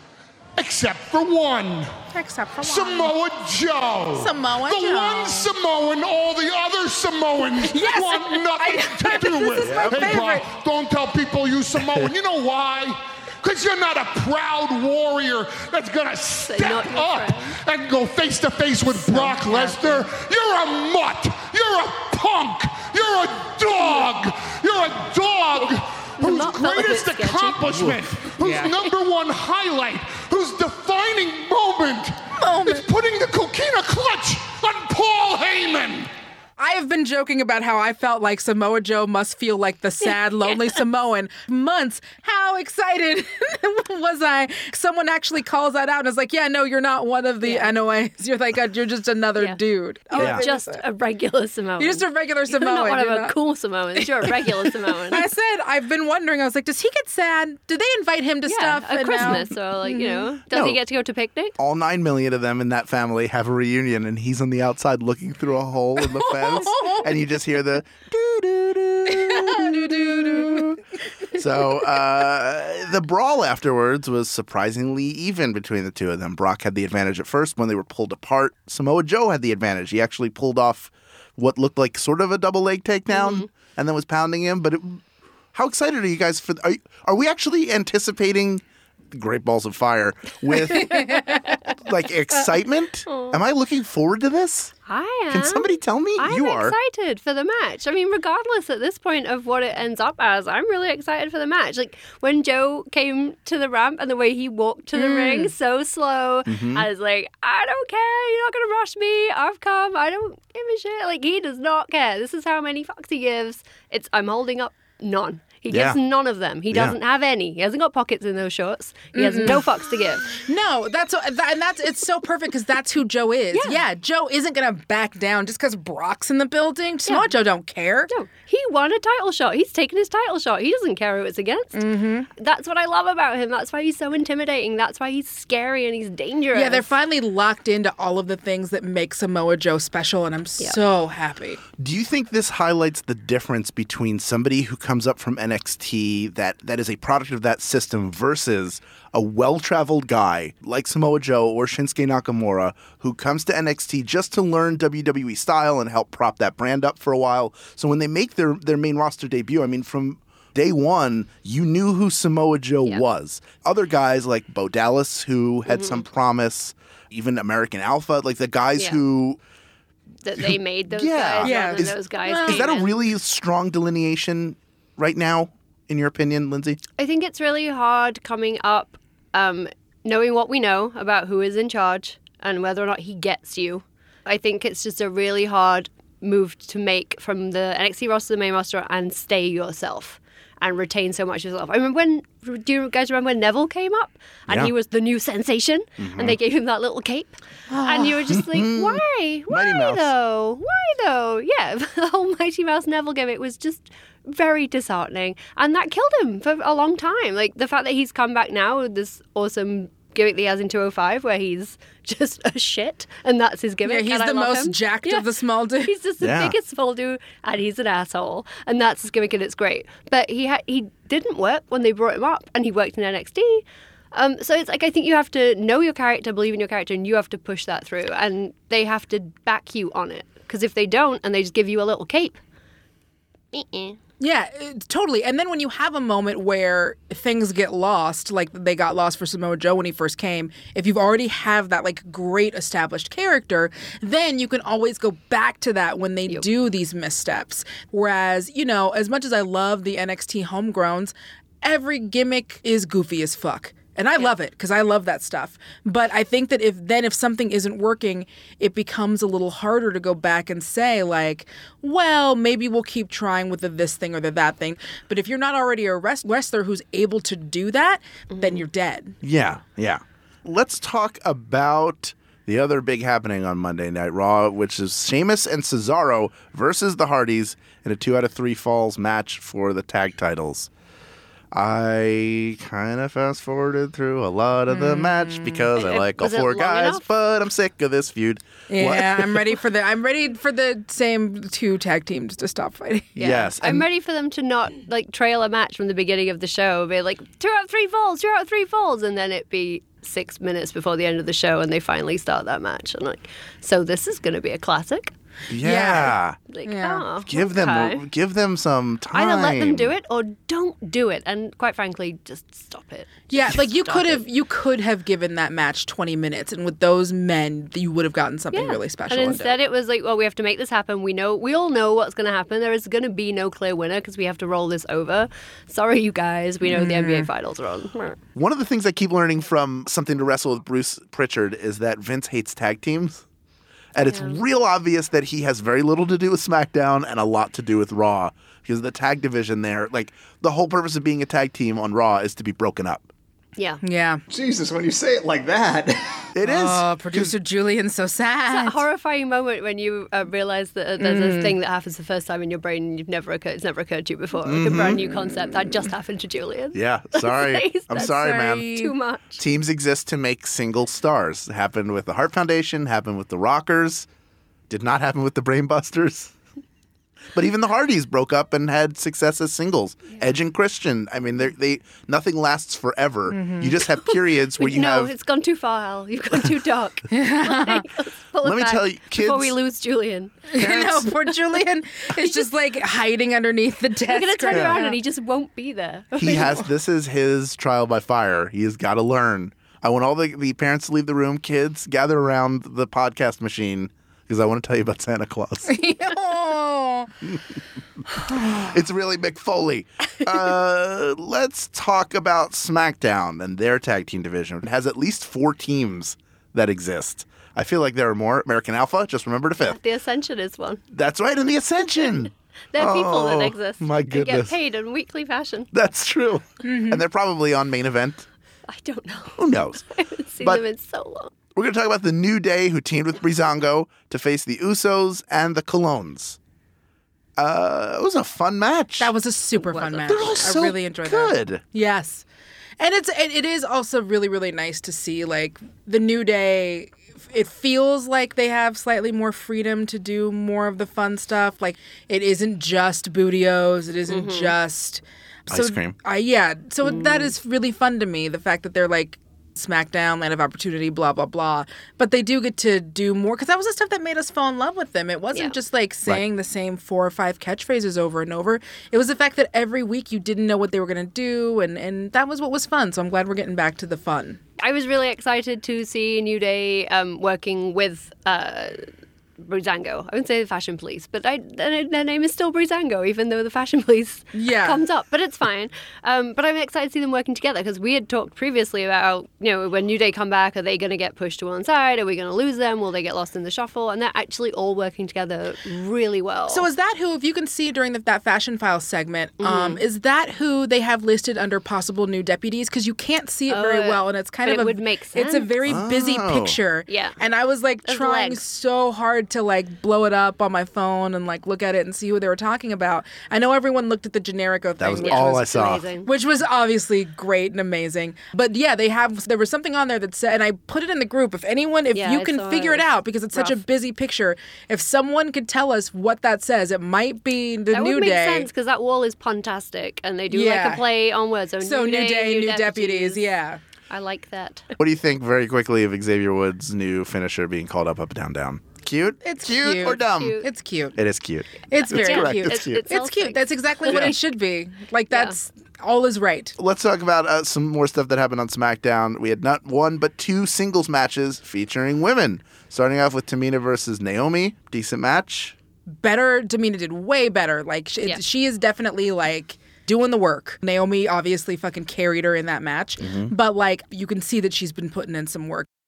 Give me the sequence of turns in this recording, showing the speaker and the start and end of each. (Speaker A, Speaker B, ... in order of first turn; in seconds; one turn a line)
Speaker A: 0.6-1.9
Speaker B: 2.1-3.1
Speaker A: 2.6-36.1
Speaker B: 4.2-5.5
Speaker B: 7.6-10.5
Speaker C: 9.6-10.2
Speaker D: 16.4-17.6
Speaker B: 18.9-20.1
Speaker D: 26.2-27.6
Speaker C: 27.7-28.0
Speaker B: 28.4-28.7
Speaker B: 32.4-32.9
Speaker B: 36.6-50.8
Speaker D: 40.0-40.8
Speaker D: 47.4-47.7
Speaker D: 50.1-55.2
Speaker C: 50.2-50.4
Speaker B: 51.8-53.4
Speaker B: 54.0-60.3
Speaker D: 58.5-61.5
Speaker C: 60.5-60.8
Speaker C: 61.6-70.8
Speaker B: 66.2-67.1
Speaker B: 69.1-70.8
Speaker C: 71.3-85.0
Speaker D: 83.1-83.5
Speaker C: 85.5-91.2
Speaker D: 90.7-91.6
Speaker B: 90.8-91.4
Speaker C: 91.8-94.7
Speaker D: 93.1-93.4
Speaker D: 94.9-120.3
Speaker C: 95.3-96.7
Speaker B: 104.9-105.5
Speaker C: 106.5-106.8
Speaker C: 115.7-116.0
Speaker C: 116.7-116.9
Speaker B: 119.1-119.6
Speaker B: 120.3-128.1
Speaker D: 123.5-123.8
Speaker D: 128.1-131.8
Speaker B: 131.7-132.3
Speaker D: 132.3-136.9
Speaker B: 136.5-141.6
Speaker C: 141.8-169.4
Speaker D: 165.7-166.0
Speaker D: 170.2-172.9
Speaker C: 170.4-176.8
Speaker B: 171.4-172.7
Speaker D: 177.0-215.2
Speaker C: 196.0-196.4
Speaker B: 197.7-198.2
Speaker C: 198.3-200.1
Speaker B: 213.8-215.9
Speaker D: 215.8-232.4
Speaker C: 216.2-216.5
Speaker D: 233.5-234.0
Speaker B: 234.2-269.2
Speaker D: 268.3-268.6
Speaker C: 269.2-280.7
Speaker C: 281.5-289.6
Speaker B: 284.7-285.7
Speaker D: 285.8-287.1
Speaker B: 288.7-293.4
Speaker C: 293.1-293.9
Speaker D: 293.2-305.1
Speaker C: 305.5-306.4
Speaker B: 305.6-307.1
Speaker D: 306.5-308.0
Speaker C: 307.2-309.9
Speaker D: 309.1-314.2
Speaker B: 313.3-319.5
Speaker D: 318.5-328.2
Speaker B: 326.7-327.3
Speaker C: 328.3-333.2
Speaker C: 333.9-343.1
Speaker D: 334.1-334.4
Speaker D: 343.6-343.8
Speaker B: 343.8-344.2
Speaker E: 344.3-346.2
Speaker C: 346.3-347.3
Speaker B: 346.4-348.8
Speaker D: 348.5-359.4
Speaker B: 351.0-351.5
Speaker C: 354.4-355.0
Speaker C: 356.7-358.7
Speaker B: 358.0-358.9
Speaker C: 359.4-364.1
Speaker C: 364.7-366.3
Speaker C: 367.3-375.1
Speaker B: 373.3-373.8
Speaker D: 374.0-380.5
Speaker B: 377.1-377.9
Speaker C: 378.4-379.5
Speaker B: 380.5-385.0
Speaker C: 380.6-381.1
Speaker D: 384.1-386.6
Speaker C: 384.5-384.8
Speaker C: 386.1-395.7
Speaker B: 395.7-397.1
Speaker B: 398.3-398.7
Speaker C: 398.5-409.8
Speaker D: 409.6-410.8
Speaker C: 410.9-414.5
Speaker D: 412.7-415.7
Speaker C: 415.7-418.3
Speaker B: 416.6-417.0
Speaker D: 418.7-421.3
Speaker C: 419.4-419.8
Speaker C: 421.5-426.4
Speaker C: 427.4-429.1
Speaker B: 429.0-432.2
Speaker D: 429.6-430.5
Speaker C: 430.1-431.6
Speaker B: 432.8-464.4
Speaker D: 444.1-444.5
Speaker C: 445.5-445.9
Speaker D: 446.8-447.3
Speaker D: 464.6-468.9
Speaker D: 469.4-486.6
Speaker B: 474.3-474.8
Speaker B: 486.5-518.5
Speaker D: 489.4-489.8
Speaker D: 493.5-495.7
Speaker C: 495.7-496.6
Speaker D: 496.9-497.2
Speaker D: 497.9-498.4
Speaker C: 504.8-505.8
Speaker D: 505.0-506.1
Speaker D: 511.9-513.6
Speaker D: 517.7-523.2
Speaker B: 520.3-520.9
Speaker B: 521.6-523.6
Speaker D: 523.9-524.7
Speaker C: 524.8-530.4
Speaker B: 529.2-531.0
Speaker D: 529.9-530.5
Speaker C: 530.9-532.8
Speaker B: 531.7-536.5
Speaker D: 531.9-534.1
Speaker C: 533.9-534.1
Speaker C: 536.6-545.5
Speaker B: 545.9-555.7
Speaker C: 553.0-553.3